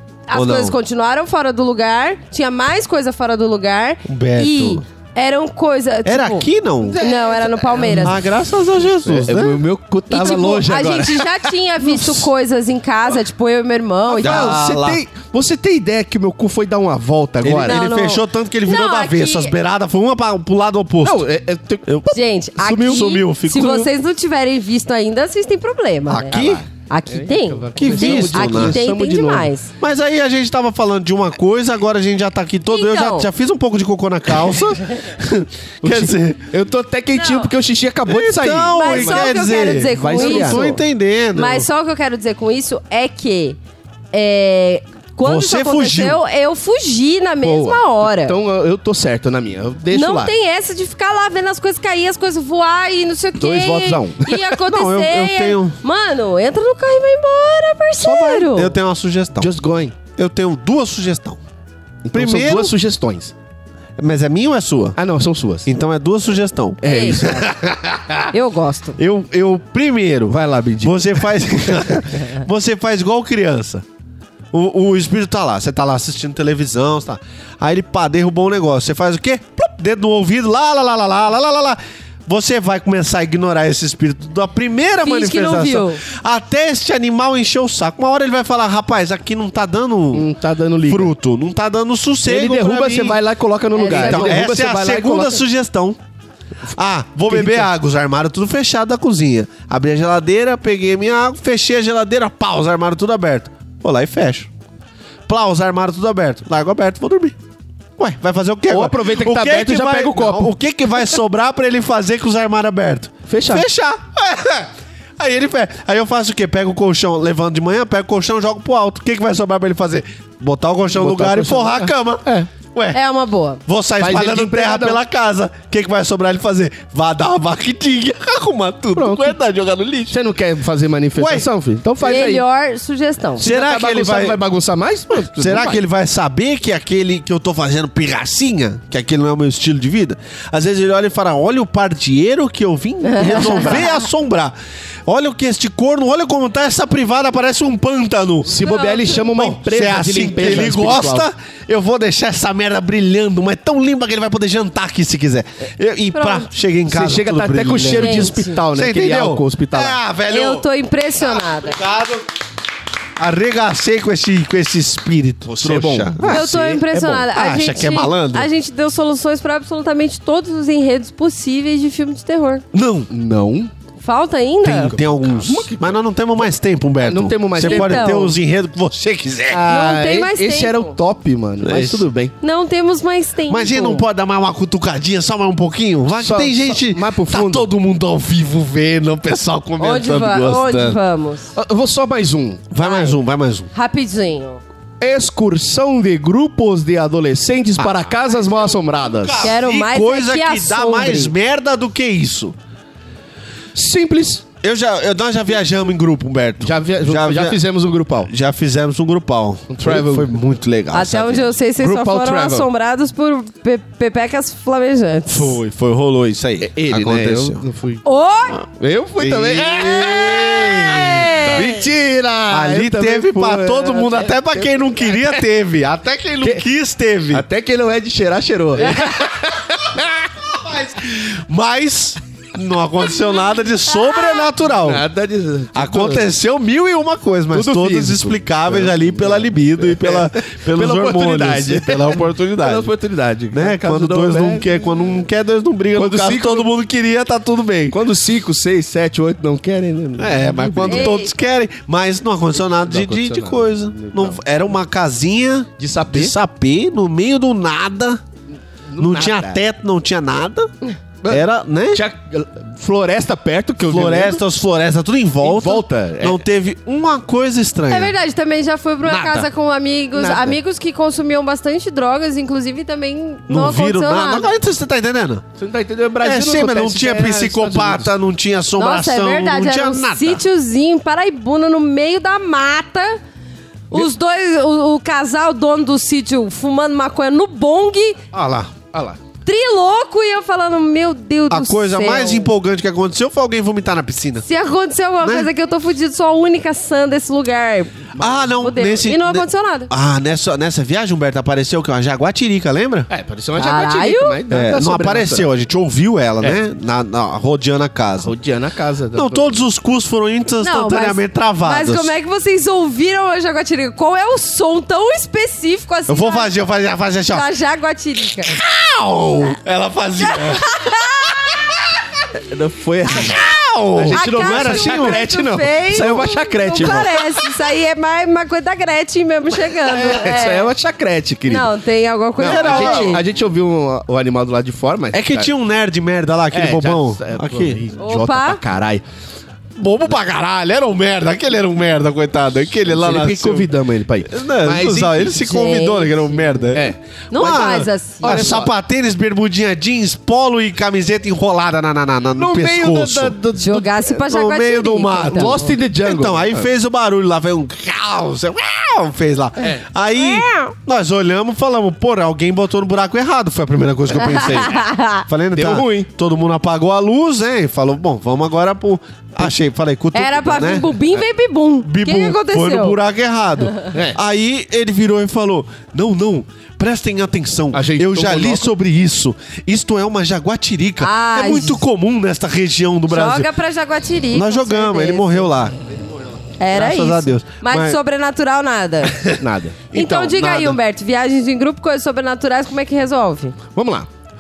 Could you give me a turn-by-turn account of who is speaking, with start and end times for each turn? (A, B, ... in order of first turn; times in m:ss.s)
0:00.3-0:06.5 A
0:00.3-0:00.8 B
0:04.0-0:04.8 B
0:06.1-0:07.0 B
0:06.8-0:08.2 C
0:07.0-0:08.2 A
0:08.0-0:09.6 B
0:09.0-0:12.2 C
0:10.1-0:14.6 A
0:14.1-0:17.8 C
0:14.2-0:15.0 B
0:17.4-0:21.3 B
0:17.6-0:19.5 A
0:21.0-0:21.9 C
0:21.9-0:23.9 B
0:22.1-0:29.7 A
0:26.1-0:26.6 B
0:26.3-0:29.5 C
0:27.8-0:28.8 B
0:29.8-0:36.4 B
0:32.7-0:33.3 A
0:35.8-0:40.7 C
0:37.2-0:37.5 A
0:38.1-0:41.7 B
0:38.7-0:40.8 A
0:41.3-0:43.6 A
0:44.1-0:48.4 A
0:45.2-0:46.2 B
0:47.4-0:50.3 C
0:49.9-0:58.8 A
0:53.4-0:54.5 C
0:54.6-0:55.8 B
0:58.0-0:58.5 C
0:58.5-0:59.5 B
0:59.4-1:00.0 C
1:00.2-1:01.4 B
1:02.0-1:03.3 C
1:02.1-1:02.7 B
1:04.0-1:05.0 B
1:05.0-1:05.7 C
1:05.6-1:08.3 B
1:06.8-1:07.3 C
1:06.8-1:07.5 A
1:08.3-1:09.0 A
1:09.0-1:13.8 B
1:10.3-1:11.3 C
1:14.5-1:30.3 B
1:25.0-1:26.0 A
1:30.1-1:31.1 C
1:30.9-1:33.2 B
1:32.3-1:35.4 C
1:33.8-1:34.5 A
1:34.0-1:36.0 B
1:36.7-1:44.5 B
1:37.3-1:37.7 C
1:45.3-1:47.4 B
1:48.0-2:03.0 B
1:48.7-1:50.6 C
1:53.3-1:53.7 C
2:01.0-2:02.5 C
2:02.9-2:03.6 A
2:03.7-2:10.2 B
2:04.0-2:05.0 C
2:09.0-2:09.4 C
2:10.1-2:12.4 C
2:11.2-2:11.5 B
2:12.0-2:13.5 A
2:13.4-2:15.8 C
2:13.4-2:14.4 B
2:15.2-2:24.6 B
2:23.0-2:23.9 A
2:25.1-2:28.6 B
2:28.5-2:31.3 C
2:28.6-2:29.2 A
2:29.4-2:40.7 B
2:36.1-2:36.5 A
2:36.9-2:40.0 C
2:37.9-2:38.6 A
2:40.3-2:41.8 A
2:41.2-2:42.2 B
2:43.2-2:48.5 B
2:45.5-2:46.9 C
2:46.3-2:52.6 A
2:52.7-2:53.1 B
2:53.1-2:53.7 C
2:54.0-2:55.0 A
2:54.6-2:59.6 B
2:54.8-2:56.0 C
2:57.0-2:58.3 C
2:57.6-2:58.3 A
2:59.5-3:02.3 C
2:59.7-3:01.0 A
3:01.6-3:02.1 B
3:02.4-3:04.0 A
3:03.5-3:11.0 B
3:06.2-3:07.7 C
3:09.8-3:11.5 A
3:11.6-3:12.7 C
3:12.7-3:13.7 B
3:12.8-3:13.2 A
3:13.7-3:14.6 A
3:15.0-3:19.5 C
3:17.8-3:22.6 B
3:19.4-3:21.3 A
3:23.8-3:24.4 C
3:24.6-3:27.6 B
3:26.6-3:28.3 C
3:28.2-3:31.6 B
3:29.7-3:30.4 C
3:30.9-3:35.6 A
3:31.8-3:32.7 C
3:35.3-3:37.6 B
3:36.6-3:38.0 C
3:38.0-3:38.6 A
3:38.8-3:40.5 C
3:39.2-3:41.7 B
3:40.2-3:41.8 A
3:41.4-3:45.5 C
3:42.5-3:47.5 B
3:47.3-3:50.3 C
3:48.8-3:49.3 B
3:50.4-3:55.0 B
3:54.8-3:56.3 C
3:55.8-4:02.9 B
3:57.5-4:04.7 C
4:03.5-4:08.0 B
4:06.0-4:06.7 C
4:07.9-4:11.2 C
4:10.2-4:18.2 B
4:10.9-4:11.3 A
4:12.8-4:14.4 C
4:15.8-4:16.4 C
4:18.9-4:19.6 C
4:19.0-4:20.7 B
4:21.2-4:24.4 C
4:21.3-4:22.0 B
4:23.8-4:28.1 B
4:25.4-4:26.4 C
4:27.9-4:34.5 A
4:29.0-4:29.5 B
4:30.1-4:30.6 C
4:33.5-4:35.4 B
4:35.6-4:38.1 C
4:36.2-4:40.4 B
4:38.8-4:43.2 A
4:43.9-4:48.2 A
4:48.3-4:48.7 B
4:48.9-4:49.2 C
4:49.4-4:52.5 A
4:51.5-4:54.5 B
4:54.4-4:59.9 A
4:55.2-4:55.5 B
4:58.2-5:03.1 B
5:03.1-5:05.5 C
5:03.6-5:04.4 A
5:04.5-5:08.3 B
5:08.2-5:09.6 C
5:09.1-5:12.1 B
5:10.6-5:16.5 A
5:16.1-5:17.5 B
5:17.3-5:18.6 A
5:18.5-5:20.8 B
5:20.2-5:21.3 A
5:22.4-5:23.4 C
5:23.1-5:25.2 B
5:24.0-5:27.3 C
5:24.1-5:30.7 A
5:29.9-5:31.7 C
5:31.5-5:33.2 A
5:32.4-5:35.5 C
5:32.4-5:33.2 B
5:35.1-5:37.8 B
5:36.5-5:39.0 C
5:38.0-5:38.6 A
5:39.8-5:43.7 B
5:42.9-5:45.4 C
5:44.3-5:53.4 B
5:45.4-5:46.4 A
5:47.3-5:48.4 A
5:48.2-5:48.7 C
5:52.4-5:54.1 C
5:53.6-5:55.7 A
5:54.2-6:11.1 B
5:55.3-5:56.7 C
6:00.2-6:00.7 A
6:04.2-6:05.2 A
6:05.6-6:06.1 C
6:10.1-6:13.0 A
6:11.8-6:23.5 B
6:13.9-6:14.2 C
6:17.7-6:18.7 C
6:21.0-6:21.8 A
6:23.1-6:25.5 A
6:24.3-6:25.8 B
6:26.6-6:29.2 A
6:26.7-6:28.0 B
6:29.1-6:29.4 B
6:29.4-6:30.8 C
6:29.9-6:33.6 A
6:33.8-6:34.1 C